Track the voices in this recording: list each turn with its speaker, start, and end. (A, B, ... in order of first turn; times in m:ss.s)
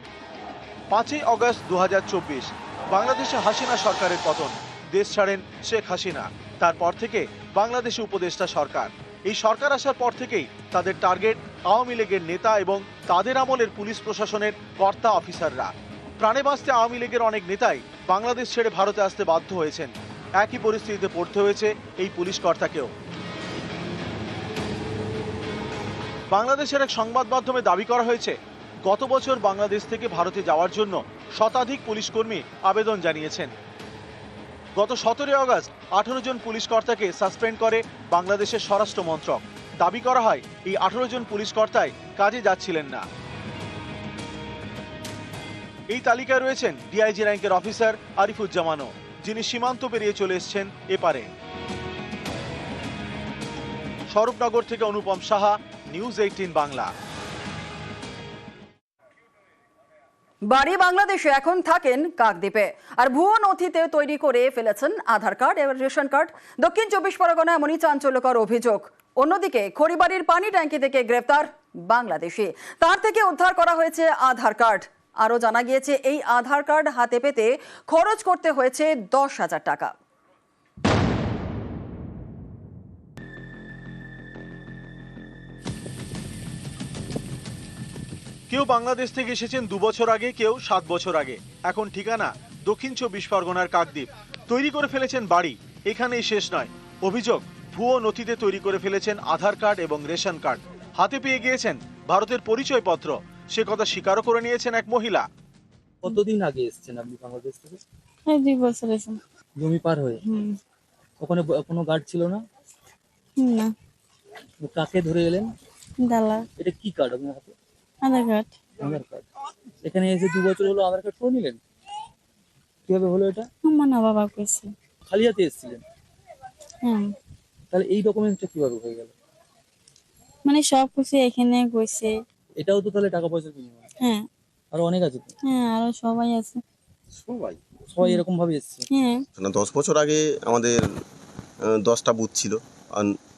0:00.9-0:22.9 A
0:26.3-0:33.5 A
0:34.8-0:43.0 A
0:45.9-0:51.3 A
0:54.1-0:56.9 A
1:00.4-1:20.0 B
1:28.5-1:45.3 A
1:46.0-1:47.8 C
1:48.3-1:49.2 D
1:49.6-1:50.2 C
1:50.2-1:50.6 D
1:51.2-1:52.4 C
1:53.4-1:53.7 D
1:54.6-1:55.5 C
1:56.0-1:56.5 D
1:56.6-1:57.5 C
1:58.0-1:58.5 D
1:58.8-1:59.2 C
1:59.8-2:01.6 C
2:02.9-2:03.5 C
2:03.6-2:04.7 D
2:05.1-2:05.8 C
2:06.8-2:07.2 D
2:07.7-2:09.1 C
2:10.4-2:12.2 D
2:12.6-2:13.8 C
2:14.0-2:14.3 D
2:14.7-2:15.3 C
2:15.4-2:16.6 D
2:17.3-2:17.6 E
2:18.0-2:18.9 C
2:18.9-2:19.2 D
2:19.4-2:20.8 E
2:21.7-2:23.2 E